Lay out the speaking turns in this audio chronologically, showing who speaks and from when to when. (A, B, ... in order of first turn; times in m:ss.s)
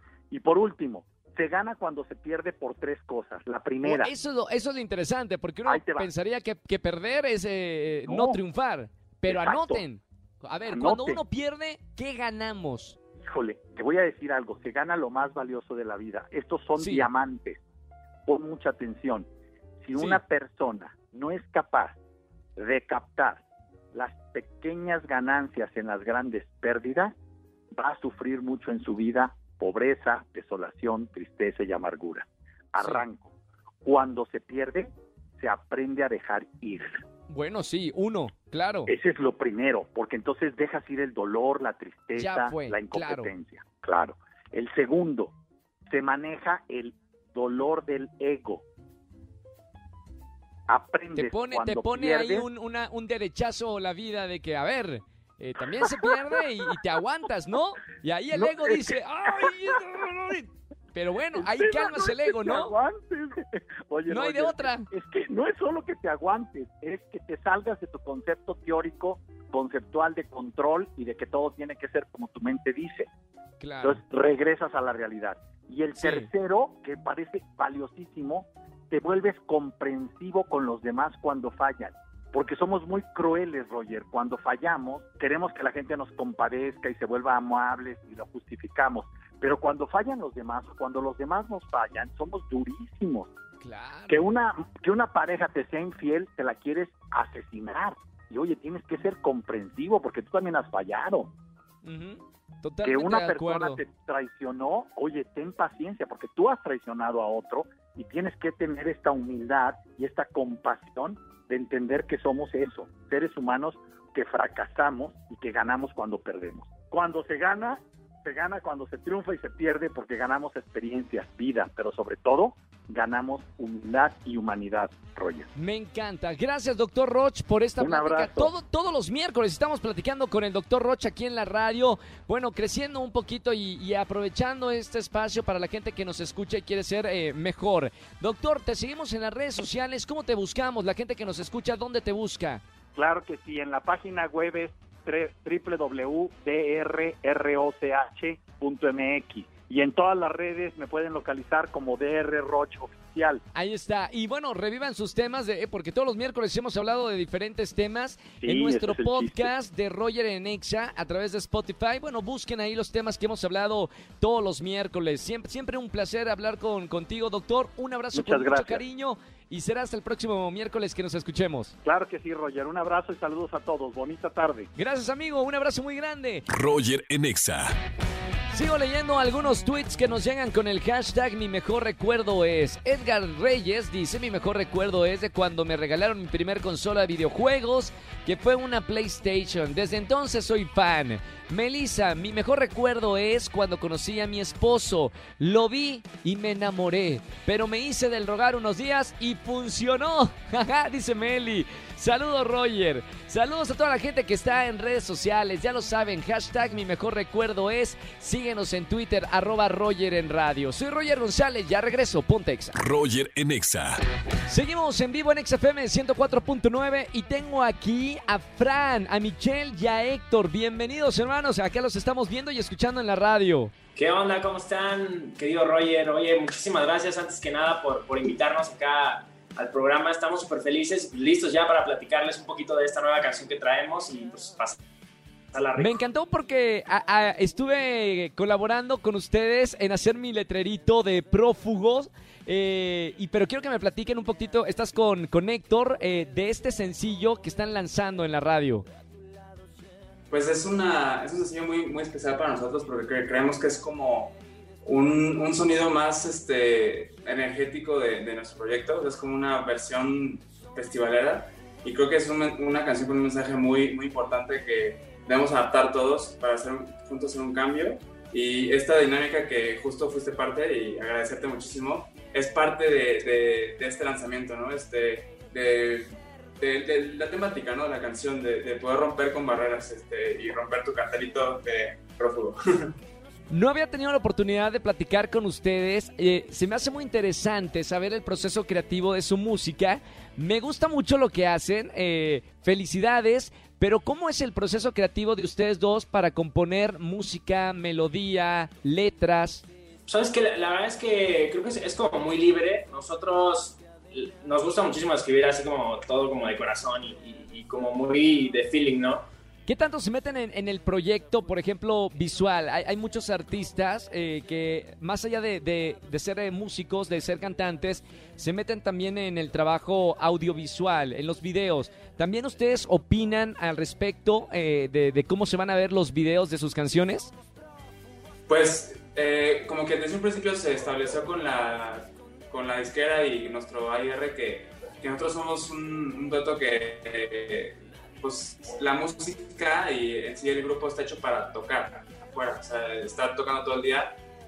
0:00.3-0:04.1 A
0:03.8-0:13.0 B
0:05.6-0:06.1 A
0:08.0-0:08.4 A
0:09.2-0:09.8 A
0:10.7-0:11.2 A
0:13.2-0:17.6 A
0:16.8-0:17.1 B
0:18.3-0:19.3 A
0:19.8-0:22.0 A
0:22.6-0:23.4 A
0:23.9-0:27.1 A
0:27.7-0:33.3 A
0:33.8-0:37.0 A
0:37.3-0:38.9 B
0:38.9-0:45.3 A
0:42.2-0:43.3 B
0:45.9-0:48.6 A
0:50.7-0:52.5 A
0:51.2-1:02.7 B
1:01.3-1:13.1 A
1:04.1-1:04.8 B
1:13.6-1:14.0 B
1:13.8-1:33.3 A
1:16.0-1:16.3 B
1:33.6-1:34.2 B
1:34.1-1:41.3 A
1:41.8-1:43.8 B
1:42.8-2:05.5 A
2:05.6-2:22.6 B
2:07.8-2:08.5 A
2:22.9-2:33.4 A
2:33.5-2:51.7 B
2:38.4-2:39.5 A
2:48.1-2:48.8 A
2:51.8-2:54.7 A
2:54.7-2:56.4 B
2:56.5-2:57.6 C
2:58.5-3:32.8 B
3:32.8-3:33.9 C
3:34.5-3:43.7 B
3:43.9-3:54.8 D
3:55.5-3:56.0 D
3:55.8-4:08.8 B
4:10.3-4:36.1 E
4:36.6-4:42.9 E
4:43.5-4:59.6 B
5:00.1-5:09.2 D
5:09.6-5:27.3 B
5:28.5-5:44.2 E